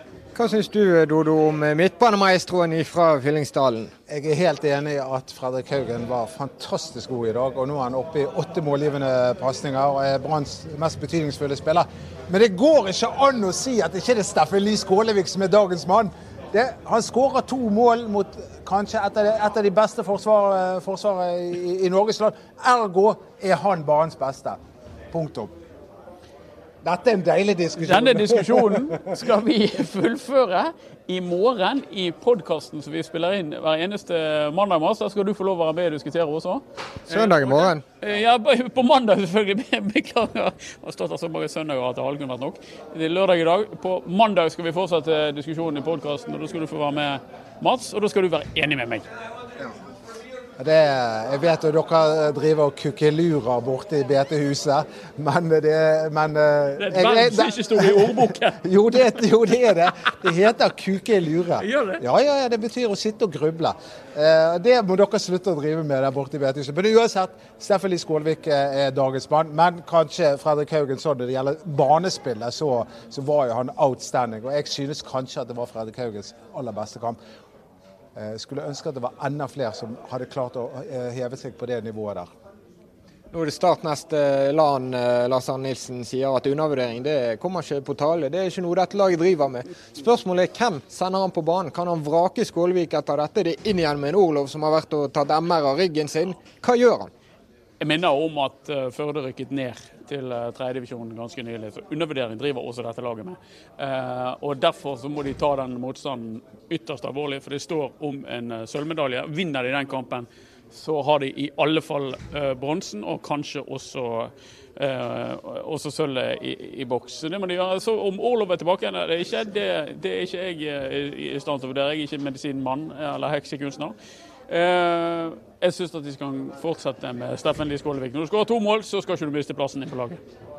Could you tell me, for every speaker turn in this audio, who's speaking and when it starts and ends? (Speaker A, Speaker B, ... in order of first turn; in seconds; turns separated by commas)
Speaker A: 0.3-3.9, Speaker B: 4.1-24.6, Speaker B: 25.1-25.5, Speaker B: 26.8-29.1, Speaker C: 27.8-49.1, Speaker A: 37.1-37.8, Speaker B: 50.6-77.2, Speaker C: 56.8-59.1, Speaker C: 61.6-62.0, Speaker B: 78.2-82.3, Speaker A: 83.3-97.1, Speaker C: 97.8-124.0, Speaker C: 124.5-130.2